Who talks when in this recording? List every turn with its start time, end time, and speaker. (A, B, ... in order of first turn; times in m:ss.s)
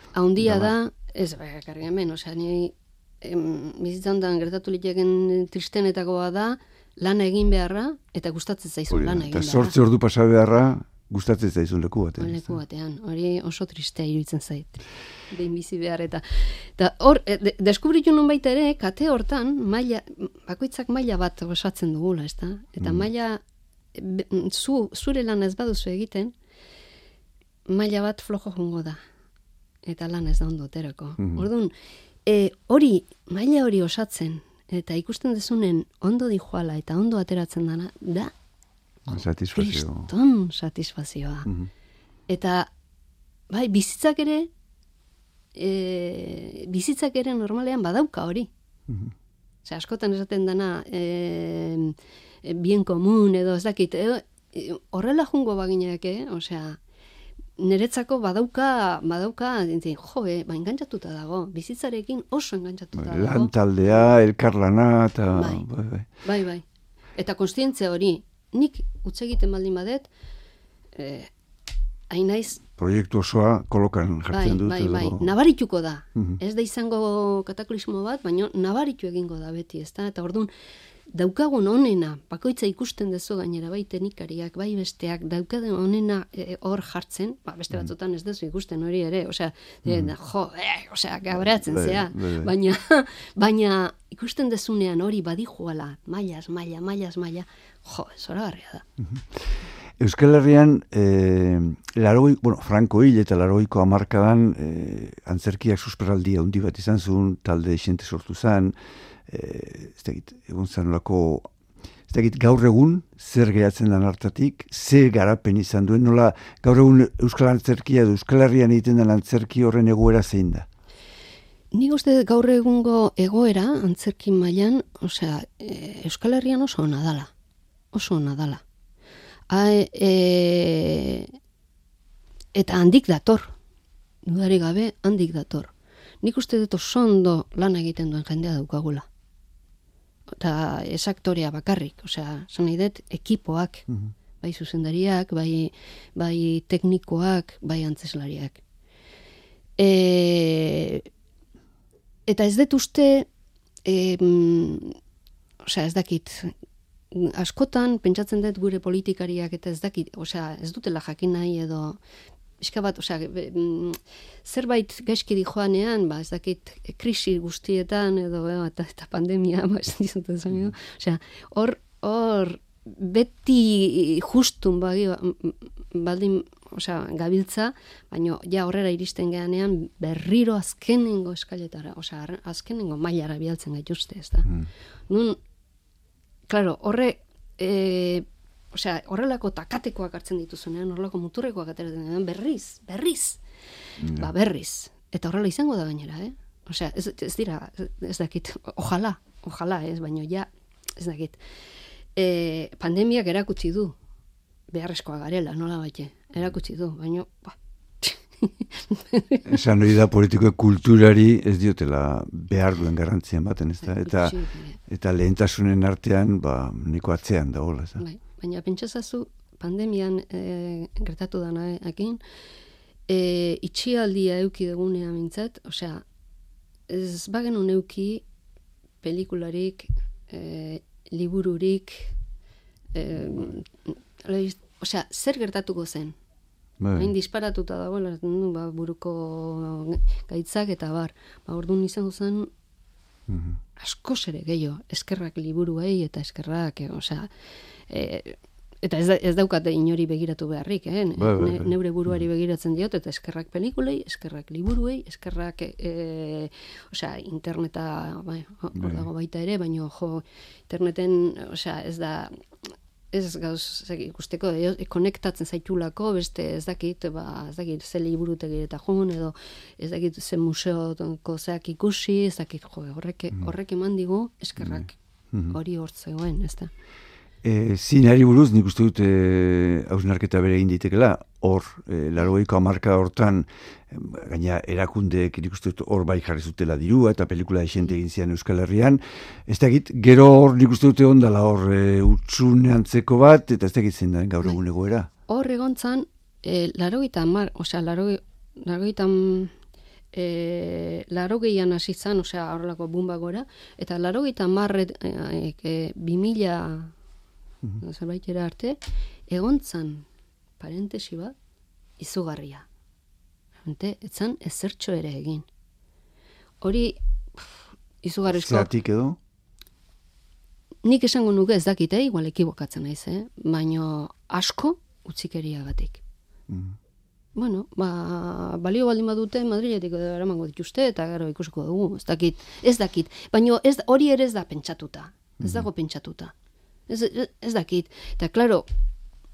0:00.1-0:09.7 A
0:00.4-0:00.7 B
0:08.9-0:12.6 B
0:12.2-0:23.4 A
0:23.9-0:26.3 A
0:27.7-0:29.0 A
0:29.8-0:31.7 A
0:31.2-0:31.5 B
0:32.2-0:38.3 A
0:39.1-0:40.1 B
0:39.1-0:41.5 A
0:42.3-0:42.7 A
0:43.5-0:44.5 A
0:45.5-0:48.5 A
0:48.9-0:49.1 B
0:49.6-0:56.8 A
0:57.6-1:03.5 A
1:02.9-1:06.1 B
1:05.3-1:05.6 A
1:06.2-1:06.6 A
1:07.2-1:10.1 A
1:10.9-1:11.3 A
1:12.1-1:12.6 A
1:12.8-1:15.3 B
1:14.3-1:20.5 A
1:21.1-1:38.8 A
1:29.8-1:30.1 B
1:31.3-1:32.5 B
1:39.0-1:48.7 B
1:49.3-1:51.5 B
1:52.1-2:00.7 B
2:01.7-2:07.3 A
2:07.9-2:08.6 A
2:09.5-2:11.3 A
2:12.5-2:13.5 A
2:14.2-2:19.0 A
2:20.4-2:23.9 A
2:24.4-2:28.6 A
2:29.8-2:31.1 A
2:32.3-2:33.3 A
2:33.8-2:35.0 A
2:35.7-2:36.5 A
2:37.1-2:42.0 A
2:42.6-3:04.5 A
3:05.1-3:05.4 A
3:06.5-3:13.4 A
3:14.0-3:14.3 B
3:14.0-3:21.4 A
3:22.2-3:23.9 A
3:24.7-3:29.5 A
3:29.4-3:34.4 B
3:33.8-3:34.8 A
3:34.9-3:38.0 B
3:38.0-3:42.2 A
3:43.1-3:46.0 A
3:46.9-3:48.2 A
3:49.0-3:52.1 A
3:52.9-3:56.2 A
3:56.8-3:57.1 B
3:57.0-4:02.5 A
4:03.3-4:03.6 B
4:03.8-4:07.3 A
4:07.9-4:22.4 A
4:11.2-4:12.1 B
4:18.7-4:19.1 B
4:23.1-4:36.7 A
4:34.6-4:35.5 B
4:37.4-4:55.1 B
4:55.3-4:59.5 A
5:00.1-5:06.9 A
5:07.8-5:10.0 A
5:10.6-5:11.3 A
5:12.0-5:12.6 A
5:13.6-5:15.4 A
5:16.6-5:18.7 A
5:18.3-5:19.2 B
5:20.8-5:26.0 A
5:26.5-5:26.8 B
5:27.3-5:36.3 A
5:35.4-5:35.7 B
5:36.9-5:38.6 A